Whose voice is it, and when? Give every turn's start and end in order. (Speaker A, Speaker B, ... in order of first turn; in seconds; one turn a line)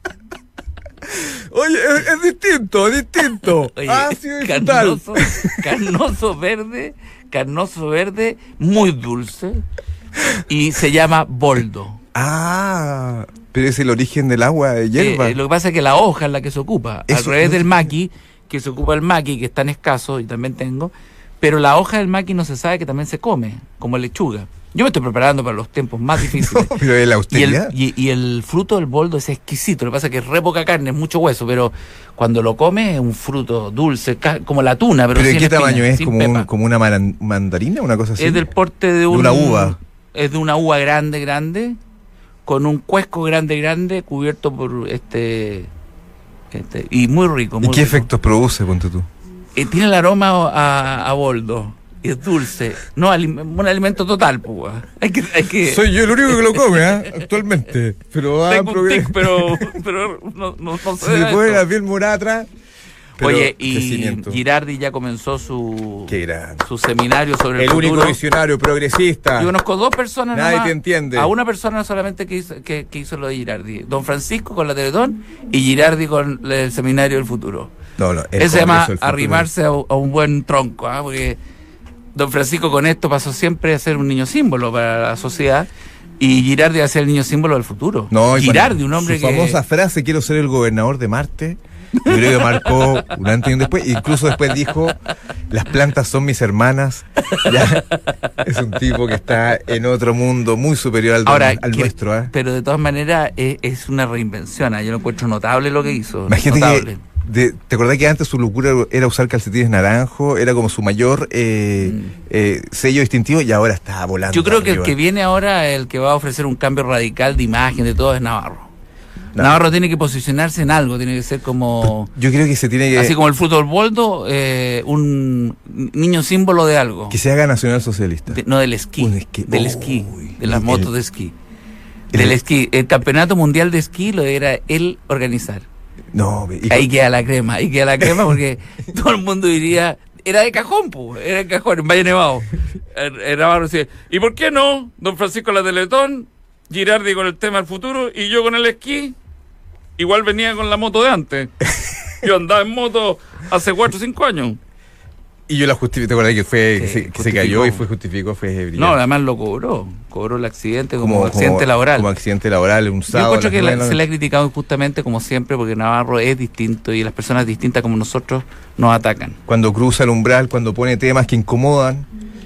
Speaker A: 1.1-5.7
Speaker B: 3.8-9.6
Speaker B: 10.3-12.0
Speaker A: 12.1-15.4
Speaker B: 15.0-26.7
Speaker A: 17.1-17.9
Speaker A: 26.2-27.8
Speaker B: 27.3-36.5
Speaker A: 35.1-38.5
Speaker B: 38.2-41.8
Speaker A: 39.1-39.8
Speaker B: 42.5-45.7
Speaker B: 46.5-48.1
Speaker A: 47.6-49.1
Speaker B: 49.5-55.9
Speaker A: 55.6-59.8
Speaker B: 58.5-61.6
Speaker A: 61.0-62.5
Speaker B: 63.2-68.2
Speaker A: 63.2-64.4
Speaker A: 66.1-66.6
Speaker A: 67.6-69.5
Speaker B: 69.4-77.8
Speaker A: 70.3-71.3
Speaker A: 78.0-79.5
Speaker B: 78.4-81.4
Speaker B: 82.2-89.6
Speaker A: 88.1-97.8
Speaker B: 92.0-93.0
Speaker B: 97.3-97.8
Speaker A: 98.4-102.3
Speaker B: 101.3-107.0
Speaker A: 106.3-115.0
Speaker B: 111.8-112.1
Speaker B: 114.3-118.7
Speaker A: 119.3-119.6
Speaker B: 119.4-122.1
Speaker A: 121.9-123.2
Speaker B: 122.9-127.2
Speaker A: 127.1-128.4
Speaker B: 128.3-131.3
Speaker A: 129.0-130.9
Speaker A: 132.1-132.4
Speaker B: 132.1-135.7
Speaker A: 136.1-136.9
Speaker B: 136.7-149.2
Speaker B: 150.0-151.6
Speaker B: 152.2-154.6
Speaker A: 155.5-159.0
Speaker B: 156.8-157.8
Speaker B: 158.8-162.1
Speaker A: 161.0-164.0
Speaker B: 163.1-169.4
Speaker A: 169.5-172.1